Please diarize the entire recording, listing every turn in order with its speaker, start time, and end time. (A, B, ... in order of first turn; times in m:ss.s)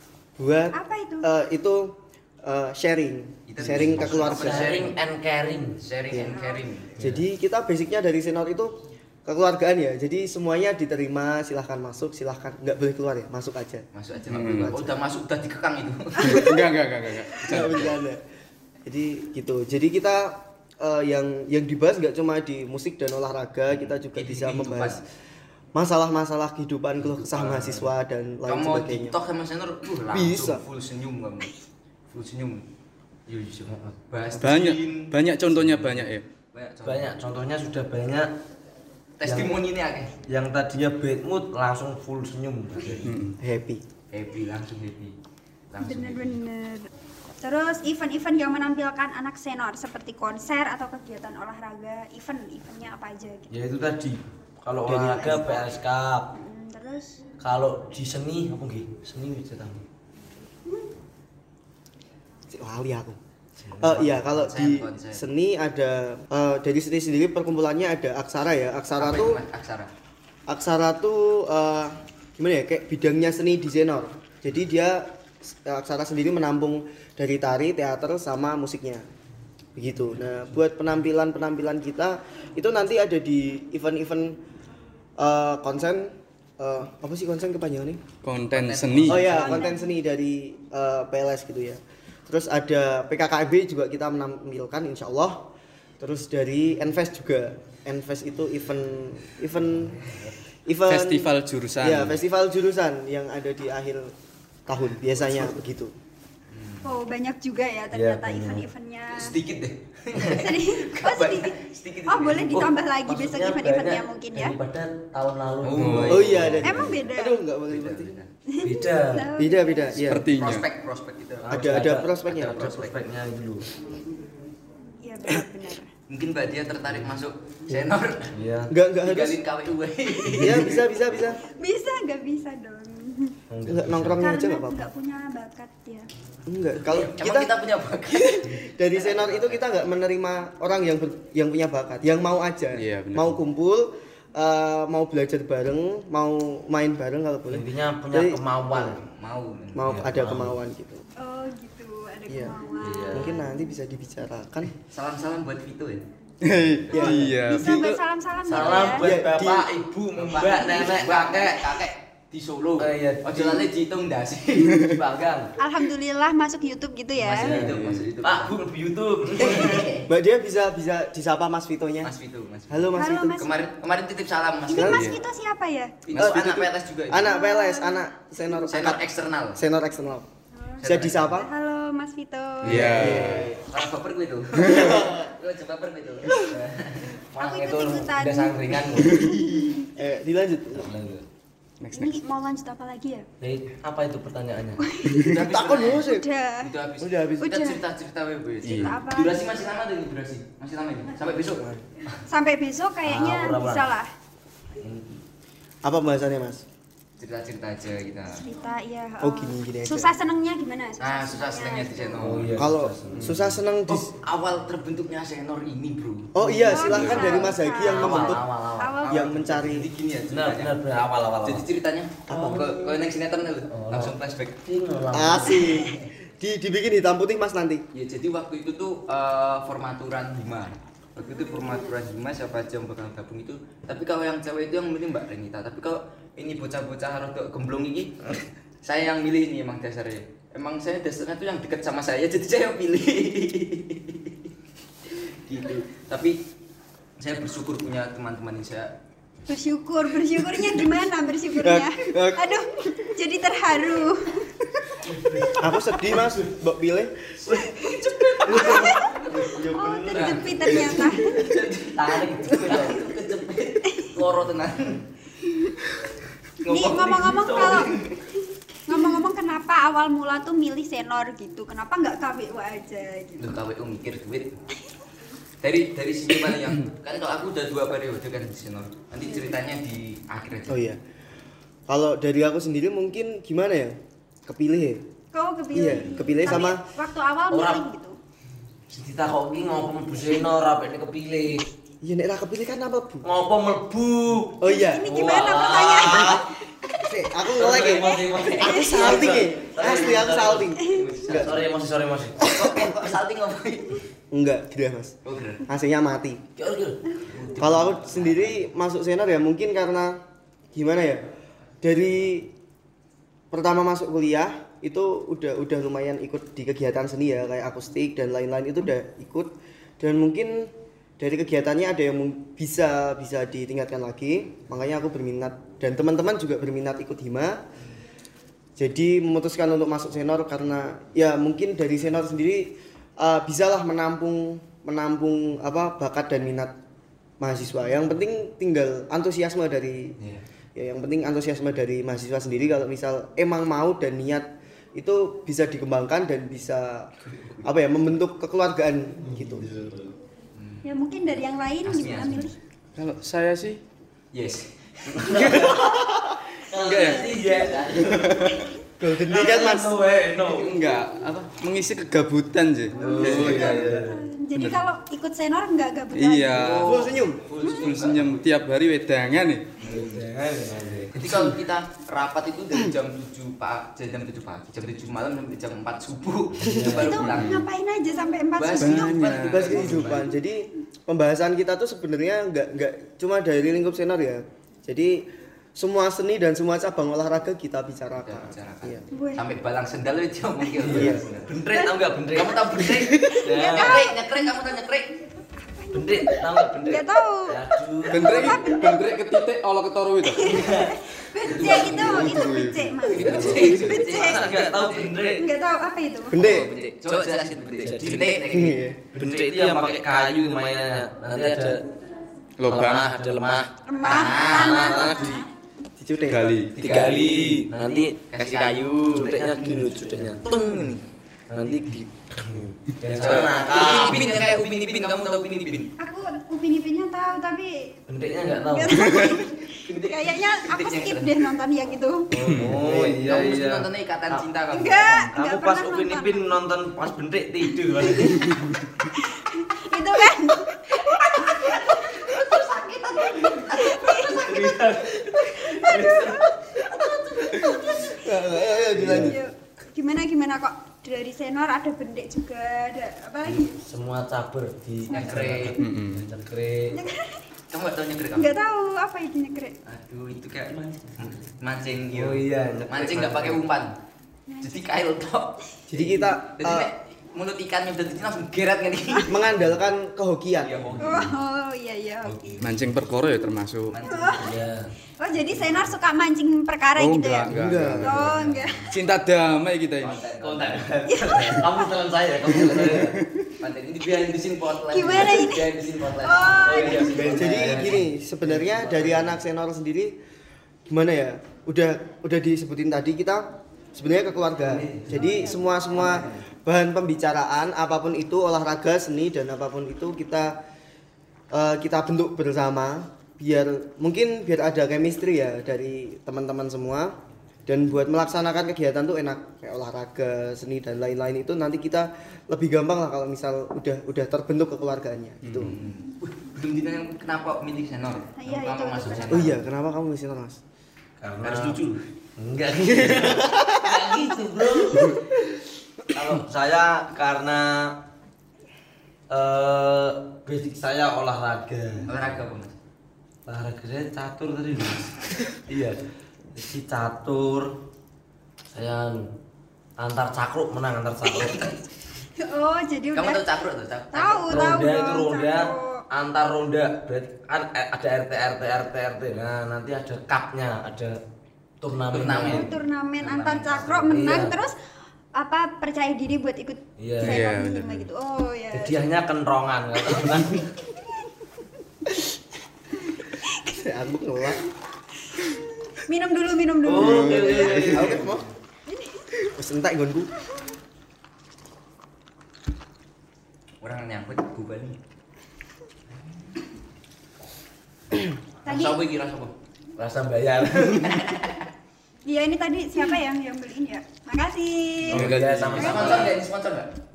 0:00.4-0:04.9 A
0:00.7-0:01.3 B
0:03.5-0:05.0 C
0:03.6-0:05.8 D
0:05.8-0:07.0 C
0:06.1-0:06.4 A
0:06.2-0:06.7 B
0:07.0-0:07.3 D
0:07.0-0:13.8 A
0:13.9-0:16.5 C
0:14.3-0:14.8 E
0:14.5-0:14.9 A
0:16.2-0:18.0 E
0:17.4-0:18.2 A
0:18.8-0:25.0 A
0:24.1-0:25.0 C
0:25.7-0:29.2 A
0:27.0-0:27.9 C
0:28.5-0:31.5 C
0:30.1-0:30.6 A
0:32.1-0:32.7 C
0:33.3-0:36.0 C
0:33.7-0:33.9 D
0:34.4-0:36.3 E
0:36.5-0:37.2 C
0:36.8-0:38.3 D
0:39.2-0:40.1 C
0:39.2-0:39.6 D
0:40.3-0:43.2 D
0:43.0-0:43.4 E
0:43.4-0:43.8 A
0:44.1-0:45.2 C
0:45.7-0:46.4 C
0:45.8-0:46.9 B
0:47.4-0:53.5 B
0:53.5-0:56.3 D
0:54.9-0:55.4 A
0:55.1-0:55.7 B
0:56.3-0:57.2 B
0:57.4-0:59.8 D
1:02.5-1:03.2 A
1:03.6-1:04.2 D
1:03.8-1:09.4 A
1:04.0-1:05.3 C
1:09.0-1:09.9 C
1:10.5-1:19.1 A
1:19.8-1:24.4 A
1:25.2-1:28.0 A
1:28.2-1:29.4 E
1:28.5-1:29.7 C
1:29.1-1:40.0 A
1:29.2-1:29.9 B
1:40.1-1:40.4 D
1:40.7-1:41.3 A
1:40.9-1:42.2 E
1:41.8-1:44.1 A
1:44.7-1:46.0 A
1:46.5-1:46.8 C
1:46.8-1:49.4 B
1:47.9-1:48.7 D
1:49.1-1:52.6 C
1:50.2-1:54.6 B
1:52.5-1:56.9 D
1:55.6-1:57.0 C
1:55.8-1:56.3 E
1:56.1-1:58.2 A
1:56.6-1:57.4 B
1:57.7-1:58.3 C
1:58.5-2:00.0 B
1:58.6-1:59.3 D
1:59.4-2:00.3 A
2:00.0-2:00.7 E
2:00.4-2:01.5 C
2:01.4-2:03.7 D
2:01.5-2:02.7 A
2:02.3-2:03.0 C
2:05.0-2:05.9 B
2:06.1-2:08.3 C
2:08.3-2:08.7 D
2:08.7-2:09.4 A
2:09.0-2:10.8 C
2:10.3-2:10.6 D
2:10.3-2:11.4 A
2:11.4-2:13.4 B
2:13.5-2:14.3 D
2:13.6-2:14.9 A
2:14.2-2:16.1 B
2:16.5-2:17.5 A
2:16.8-2:19.6 C
2:18.1-2:29.0 A
2:22.8-2:23.4 E
2:27.5-2:29.0 D
2:29.0-2:30.2 C
2:29.7-2:31.0 A
2:29.8-2:30.6 D
2:31.2-2:33.4 B
2:32.3-2:32.6 A
2:32.8-2:33.3 D
2:33.1-2:34.7 A
2:34.9-2:36.0 C
2:36.5-2:38.0 E
2:36.5-2:37.4 A
2:36.9-2:39.1 B
2:38.4-2:41.5 D
2:39.0-2:39.7 A
2:40.2-2:45.0 C
2:42.8-2:43.6 D
2:44.8-2:45.5 D
2:45.6-2:47.5 B
2:47.2-2:48.7 C
2:47.3-2:49.9 D
2:47.6-2:48.1 E
2:49.3-2:50.1 C
2:49.5-2:52.1 A
2:52.0-2:55.0 C
2:52.7-2:53.5 A
2:53.0-2:53.5 B
2:54.7-2:56.0 B
2:54.7-2:55.1 A
2:54.9-2:55.2 E
2:56.0-2:57.3 C
2:56.1-2:59.0 A
2:57.2-2:58.6 B
2:58.7-2:59.6 C
2:59.6-3:00.3 A
3:00.6-3:03.0 B
3:00.8-3:01.4 C
3:00.8-3:01.5 A
3:02.6-3:03.6 E
3:02.7-3:03.6 A
3:02.9-3:07.1 C
3:04.6-3:05.3 A
3:07.3-3:09.3 D
3:07.4-3:09.8 B
3:09.9-3:10.9 A
3:10.8-3:11.2 D
3:11.8-3:12.2 E
3:11.9-3:13.3 B
3:13.4-3:14.8 D
3:14.8-3:15.4 B
3:15.1-3:15.4 E
3:15.2-3:21.7 C
3:15.2-3:16.3 A
3:16.0-3:16.7 B
3:17.0-3:17.6 A
3:17.4-3:17.8 B
3:18.6-3:19.0 E
3:18.6-3:19.4 B
3:22.3-3:24.1 B
3:23.0-3:23.9 D
3:24.8-3:25.2 D
3:25.8-3:26.6 A
3:27.2-3:28.4 C
3:28.3-3:32.3 B
3:29.2-3:30.1 A
3:31.0-3:32.7 C
3:32.2-3:33.5 D
3:32.5-3:34.1 A
3:33.1-3:33.4 E
3:33.9-3:36.3 C
3:36.3-3:38.5 A
3:36.4-3:39.0 D
3:36.6-3:39.2 B
3:39.0-3:39.9 A
3:39.0-3:40.8 C
3:40.3-3:41.6 D
3:41.4-3:44.6 C
3:42.3-3:42.8 D
3:42.3-3:42.8 A
3:43.7-3:45.9 D
3:45.1-3:47.8 A
3:47.9-3:58.1 C
3:51.2-3:51.8 B
3:58.8-4:04.4 C
4:05.5-4:06.4 C
4:07.2-4:08.9 C
4:09.5-4:14.5 B
4:11.6-4:12.5 A
4:15.1-4:15.7 D
4:15.5-4:17.4 A
4:17.5-4:21.4 B
4:18.0-4:19.0 C
4:18.4-4:18.9 D
4:18.4-4:21.3 A
4:20.1-4:25.0 C
4:22.0-4:23.1 D
4:26.6-4:28.2 C
4:26.6-4:27.9 B
4:27.4-4:27.9 D
4:28.9-4:33.6 B
4:33.4-4:34.5 C
4:35.6-4:40.8 C
4:40.7-4:41.0 A
4:41.9-4:45.0 A
4:45.3-4:48.2 B
4:45.7-4:46.8 A
4:47.5-4:47.8 D
4:48.9-4:51.6 D
4:52.0-4:53.3 A
4:53.2-4:56.4 D
4:54.6-4:55.2 A
4:54.6-4:57.0 B
4:56.0-4:56.4 A
4:57.0-5:01.6 A
4:57.5-5:02.5 D
4:57.8-5:01.7 C
4:58.0-4:59.4 B
5:02.4-5:04.0 C
5:02.5-5:02.8 A
5:04.3-5:06.4 A
5:05.2-5:05.6 C
5:06.6-5:08.2 D
5:07.3-5:08.6 C
5:07.6-5:10.2 A
5:10.7-5:11.3 A
5:11.8-5:12.5 A
5:13.5-5:27.6 A
5:28.8-5:36.8 A
5:37.4-5:40.2 A
5:40.8-5:49.7 A
5:49.3-5:50.1 D
5:50.6-5:50.8 C
5:50.8-5:52.6 B
5:51.8-5:52.6 C
5:53.0-5:53.8 E
5:54.3-5:55.7 C
5:55.1-5:58.7 D
5:56.8-5:57.3 E
5:57.0-5:57.5 B
5:57.0-5:57.7 C
5:58.1-5:58.6 E
5:59.0-6:00.0 A
5:59.3-6:00.9 D
6:00.5-6:03.9 E
6:02.9-6:06.8 B
6:02.9-6:04.1 D
6:03.2-6:03.8 C
6:04.6-6:04.8 E
6:06.1-6:07.0 E
6:06.5-6:08.4 C
6:06.8-6:07.4 A
6:07.6-6:07.9 B
6:07.7-6:09.8 E
6:09.8-6:10.2 C
6:09.8-6:11.3 D
6:11.1-6:17.6 C
6:16.6-6:17.5 D
6:16.9-6:19.4 B
6:17.0-6:17.6 E
6:18.6-6:20.3 C
6:18.8-6:19.8 E
6:19.4-6:29.0 A
6:19.8-6:20.2 D
6:28.2-6:35.1 C
6:29.1-6:29.5 B
6:30.8-6:34.0 D
6:30.9-6:31.2 A
6:33.2-6:34.2 B
6:35.7-6:36.0 B
6:35.9-6:38.7 D
6:36.8-6:37.6 B
6:38.1-6:39.2 B
6:38.1-6:40.6 E
6:40.2-6:44.6 B
6:40.4-6:41.0 D
6:41.4-6:42.3 C
6:41.7-6:43.2 E
6:43.1-6:45.4 C
6:43.2-6:45.5 D
6:45.4-6:46.5 B
6:46.3-6:46.7 A
6:46.3-6:48.8 C
6:47.7-6:51.9 D
6:48.4-6:49.0 A
6:52.6-6:53.2 E
6:52.7-6:55.4 D
6:53.9-6:55.5 B
6:54.0-6:55.4 C
6:56.0-6:56.6 A
6:56.3-6:56.9 E
6:56.7-6:57.7 C
6:56.8-6:58.2 D
6:58.3-6:59.6 C
6:59.1-7:00.8 D
7:00.4-7:01.0 C
7:01.5-7:04.5 D
7:03.2-7:05.9 C
7:06.0-7:12.3 B
7:08.1-7:09.0 D
7:09.9-7:11.4 C
7:12.3-7:14.5 D
7:12.4-7:12.8 E
7:12.6-7:15.3 C
7:14.7-7:16.6 B
7:15.2-7:18.7 D
7:18.0-7:18.5 B
7:19.0-7:33.8 B
7:23.4-7:27.6 D
7:28.1-7:29.4 A
7:28.9-7:29.4 D
7:33.4-7:37.0 D
7:35.1-7:35.5 B
7:35.1-7:35.8 C
7:35.8-7:36.2 E
7:36.9-7:37.4 B
7:37.7-7:38.5 C
7:38.3-7:39.8 B
7:39.9-7:43.9 C
7:42.1-7:43.6 D
7:44.5-7:44.8 B
7:44.6-7:45.6 C
7:45.9-7:46.9 A
7:46.6-7:49.5 C
7:49.3-7:50.7 A
7:50.6-7:51.4 C
7:50.8-7:51.3 D
7:51.0-7:52.6 B
7:52.6-7:54.0 E
7:53.9-7:54.6 C
7:54.0-7:54.6 B
7:54.3-7:54.9 D
7:55.2-7:58.8 B
7:57.0-7:58.4 E
7:57.5-7:58.3 A
7:58.2-7:58.8 D
7:58.9-8:00.2 E
8:00.0-8:01.6 C
8:00.4-8:03.2 D
8:01.1-8:01.9 B
8:03.6-8:08.0 C
8:04.9-8:07.3 B
8:05.8-8:09.4 D
8:07.1-8:10.2 A
8:10.9-8:20.6 A
8:14.6-8:16.4 D
8:21.5-8:27.2 A
8:27.7-8:35.8 A
8:35.4-8:35.8 E
8:35.6-8:39.6 C
8:38.4-8:39.6 B
8:39.3-8:40.6 A
8:41.2-8:45.2 D
8:41.4-8:41.8 C
8:43.0-8:44.0 A
8:46.1-8:48.0 D
8:49.3-8:52.3 D
8:52.1-8:52.8 C
8:53.5-8:55.1 D
8:55.7-8:56.0 D
8:56.5-8:57.7 D
8:58.7-8:59.2 D
9:00.0-9:01.7 D
9:02.4-9:03.4 B
9:03.2-9:04.8 C
9:04.1-9:06.0 B
9:04.5-9:11.2 D
9:11.8-9:12.7 D
9:12.1-9:14.0 C
9:12.4-9:14.8 B
9:13.9-9:14.6 D
9:15.4-9:19.0 B
9:17.0-9:17.4 D
9:17.2-9:18.1 E
9:18.7-9:20.7 D
9:23.5-9:23.7 B
9:23.7-9:24.6 A
9:25.3-9:27.8 B
9:26.8-9:28.4 D
9:27.0-9:27.5 E
9:27.3-9:28.5 A
9:27.8-9:28.3 C
9:28.9-9:29.3 B
9:29.4-9:30.3 A
9:33.8-9:35.0 C
9:38.6-9:39.5 C
9:38.7-9:39.0 B
9:40.0-9:41.3 D
9:41.0-9:41.7 C
9:42.2-9:46.3 B
9:45.1-9:46.4 D
9:45.1-9:46.9 C
9:45.2-9:45.6 E